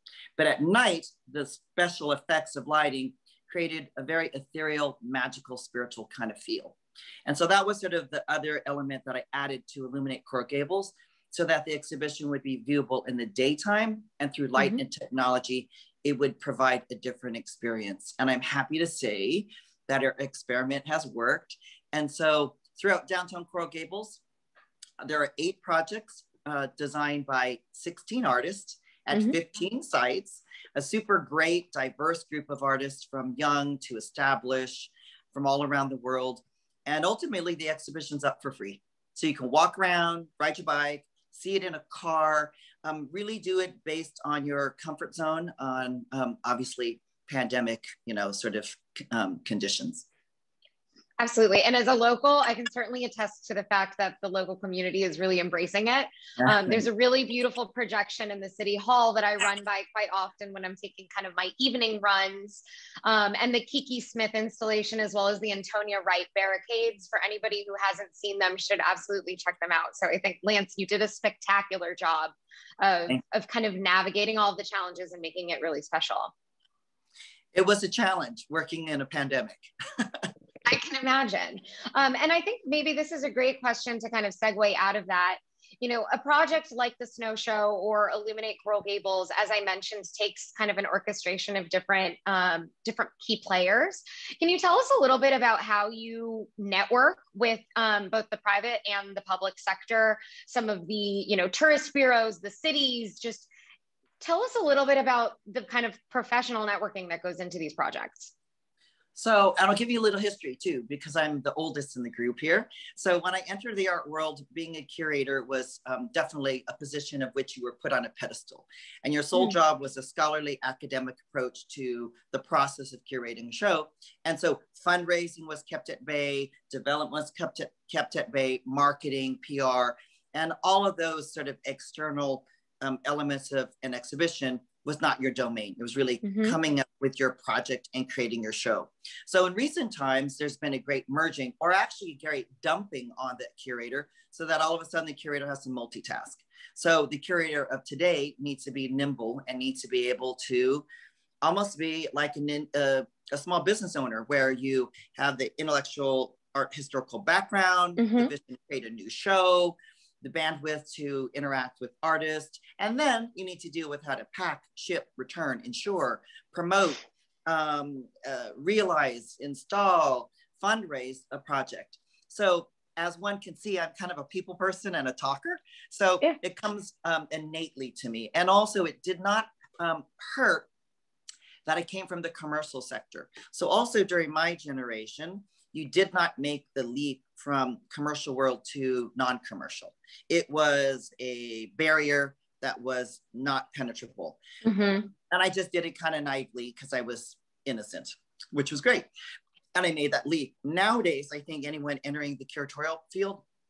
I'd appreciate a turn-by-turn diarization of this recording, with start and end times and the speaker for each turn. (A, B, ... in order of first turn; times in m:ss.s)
0:00.4-0:24.2 A
0:14.6-0:14.8 B
0:25.0-0:50.1 A
0:29.1-0:29.4 B
0:51.2-1:16.3 B
0:56.4-0:56.8 A
1:17.5-1:20.3 A
1:20.7-1:43.5 B
1:44.2-1:48.3 B
1:49.2-2:30.9 A
2:16.2-2:16.6 B
2:31.4-3:00.7 A
2:38.0-2:38.3 B
3:01.7-3:14.4 A
3:14.6-3:15.1 B
3:15.3-3:19.1 A
3:19.7-3:23.4 A